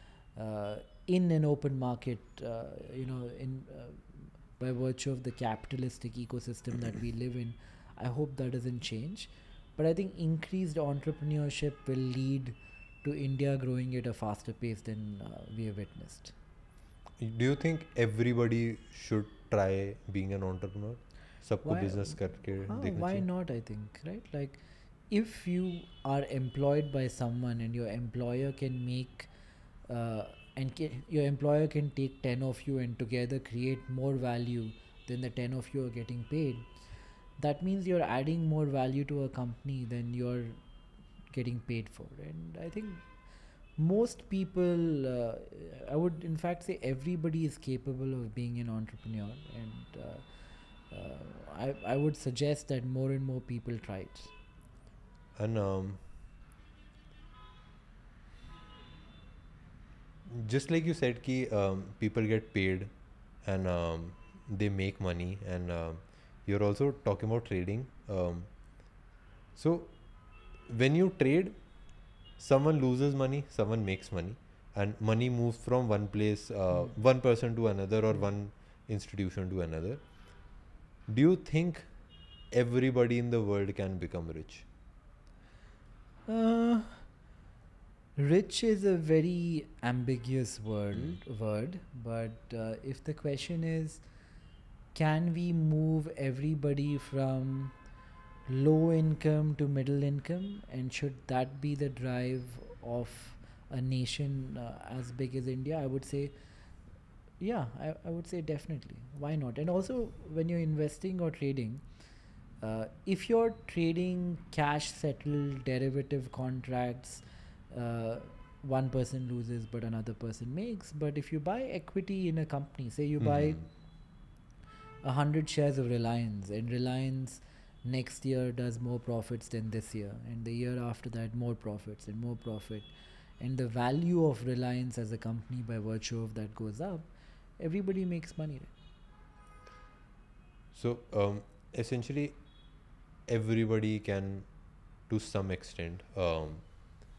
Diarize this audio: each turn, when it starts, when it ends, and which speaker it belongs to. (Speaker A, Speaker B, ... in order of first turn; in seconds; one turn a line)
Speaker A: 0.3-4.0
Speaker A: 4.6-16.3
Speaker B: 17.2-23.2
Speaker A: 21.6-29.3
Speaker A: 29.9-36.7
Speaker A: 37.4-40.6
Speaker A: 41.3-43.0
Speaker A: 43.8-50.2
Speaker A: 50.9-54.3
Speaker B: 55.3-56.0
Speaker B: 60.2-62.9
Speaker B: 63.4-68.5
Speaker B: 69.5-69.9
Speaker B: 70.7-71.5
Speaker B: 72.4-80.0
Speaker B: 81.1-81.9
Speaker B: 82.5-84.7
Speaker A: 86.3-87.0
Speaker A: 88.2-94.0
Speaker A: 94.9-97.7
Speaker A: 98.5-106.3
Speaker A: 107.4-111.8
Speaker A: 112.6-123.6
Speaker B: 123.2-123.6
Speaker A: 125.0-138.7
Speaker B: 140.7-142.4
Speaker B: 143.3-144.5
Speaker B: 145.1-146.7